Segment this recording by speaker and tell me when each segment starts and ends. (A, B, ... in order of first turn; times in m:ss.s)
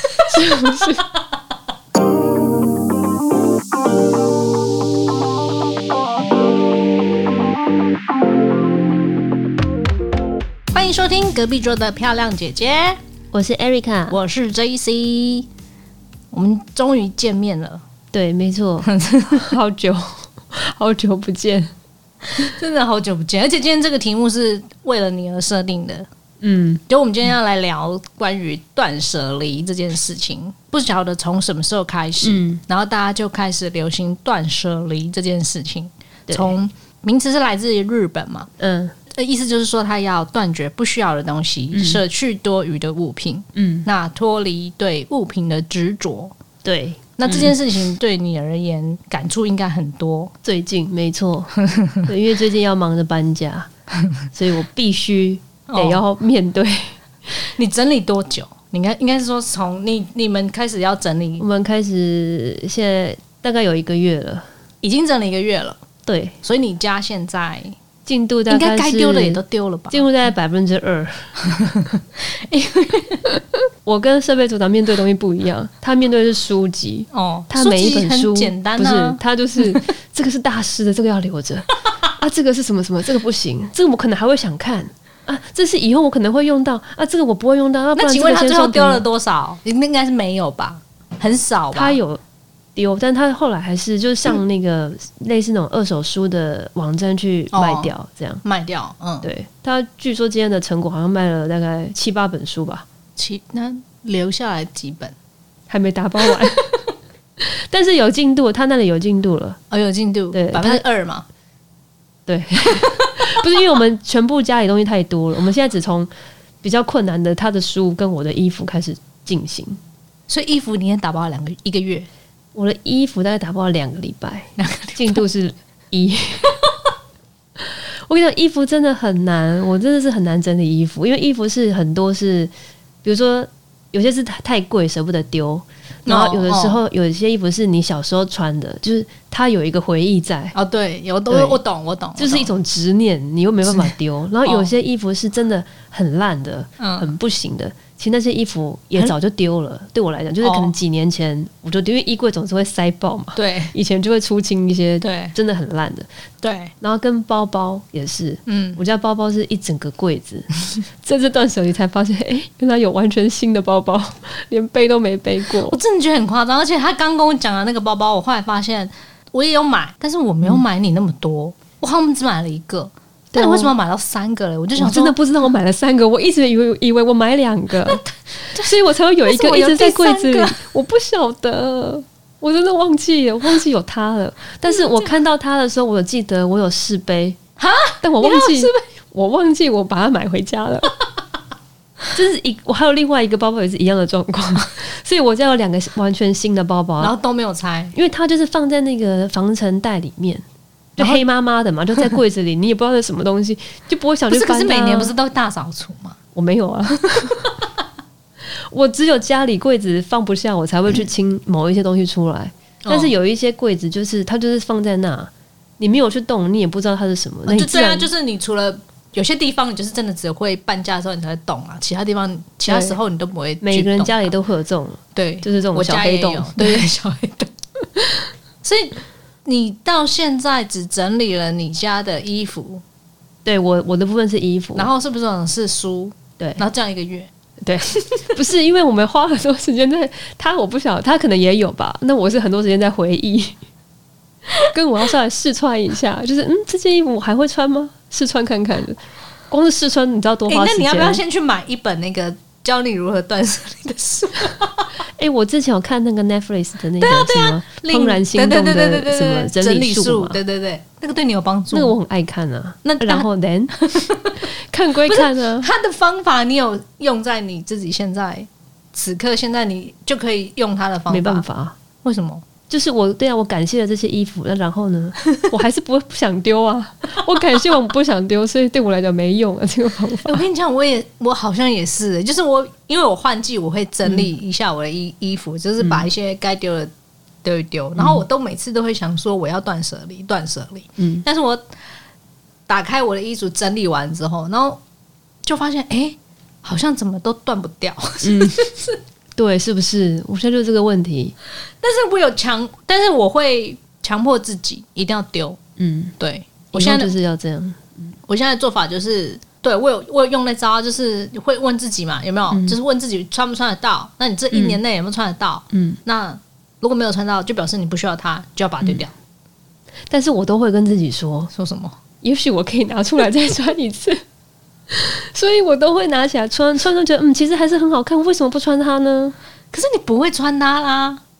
0:00.2-0:00.9 A
0:00.3-0:01.0 B
0:10.7-0:13.0 A
0:13.3-0:14.2 B
0:14.1-0:15.5 A
0:16.3-0:17.8 A
0:18.1-0:21.7 B
0:18.9-0:19.5 A
0:22.3-0:26.1 A
0:26.4-0:26.8 B
0:26.9-0:38.5 A
0:32.2-0:32.6 B
0:36.3-0:36.6 B
0:38.6-0:38.9 B
0:39.1-0:46.3 A
0:41.7-0:42.0 B
0:43.5-0:43.9 B
0:46.6-0:47.5 B
0:47.2-0:50.3 A
0:50.4-0:53.7 B
0:51.7-0:52.0 A
0:54.3-0:57.0 B
0:55.7-0:56.0 A
0:57.3-1:01.4 A
1:01.4-1:04.5 B
1:04.8-1:05.8 A
1:06.0-1:06.3 B
1:06.4-1:07.8 A
1:08.0-1:09.4 B
1:08.5-1:10.0 A
1:09.9-1:11.4 B
1:11.4-1:13.2 A
1:13.8-1:29.0 B
1:17.1-1:19.8 A
1:28.0-1:32.0 A
1:31.7-1:32.2 B
1:32.8-1:38.4 B
1:37.5-1:37.9 A
1:38.4-1:39.3 A
1:39.2-1:42.8 B
1:43.2-1:45.1 A
1:45.7-1:46.8 B
1:46.3-1:46.7 A
1:47.4-1:49.6 B
1:49.7-1:51.2 A
1:50.3-1:50.8 B
1:52.3-1:56.1 B
1:52.7-1:53.4 A
1:56.6-1:59.8 B
2:00.3-2:02.1 A
2:02.5-2:06.6 B
2:04.6-2:05.2 A
2:07.6-2:12.5 B
2:13.0-2:20.5 B
2:16.0-2:16.8 A
2:20.5-2:22.5 A
2:21.3-2:21.6 B
2:22.2-2:36.1 B
2:23.7-2:24.7 A
2:26.8-2:27.1 A
2:30.4-2:30.7 A
2:33.4-2:33.7 A
2:35.0-2:35.3 A
2:36.4-2:36.7 A
2:36.8-2:40.5 B
2:38.4-2:38.8 A
2:41.0-2:45.8 B
2:45.6-2:55.2 A
2:53.3-2:53.7 B
2:54.8-3:07.4 B
2:57.9-3:00.6 A
3:04.6-3:05.1 A
3:07.6-3:08.8 A
3:08.0-3:11.0 B
3:12.1-3:17.1 B
3:17.0-3:17.9 A
3:17.9-3:20.4 B
3:21.0-3:25.1 B
3:21.0-3:21.2 A
3:24.3-3:26.2 A
3:26.3-3:27.4 B
3:27.2-3:27.7 A
3:28.7-3:38.1 B
3:32.8-3:33.1 A
3:37.5-3:44.3 A
3:42.7-3:43.0 B
3:43.6-3:46.9 B
3:45.1-3:47.5 A
3:48.6-3:52.8 A
3:53.4-3:54.9 B
3:54.8-3:57.3 A
3:56.4-3:56.6 B
3:57.6-4:03.6 B
3:57.9-3:58.3 A
4:04.6-4:11.2 B
4:10.5-4:14.9 A
4:15.1-4:20.4 B
4:17.0-4:21.9 A
4:21.7-4:23.8 B
4:22.8-4:24.5 A
4:24.4-4:25.7 B
4:25.1-4:31.4 A
4:31.1-4:31.8 B
4:32.0-4:32.4 A
4:32.7-4:40.4 B
4:40.2-4:46.9 A
4:45.8-4:46.1 B
4:47.4-4:51.6 A
4:48.0-4:48.2 B
4:51.0-4:51.2 B
4:52.7-4:54.8 A
4:55.4-4:59.0 A
4:58.2-4:58.7 B
4:59.4-5:01.3 B
5:01.8-5:05.6 A
5:05.8-5:06.1 B
5:06.2-5:07.1 A
5:06.7-5:08.1 B
5:08.3-5:19.1 A
5:12.5-5:12.8 B
5:14.5-5:14.8 B
5:15.7-5:16.0 B
5:20.1-5:21.5 B
5:21.5-5:21.9 A
5:22.2-5:24.2 B
5:24.9-5:29.3 B
5:29.7-5:31.2 A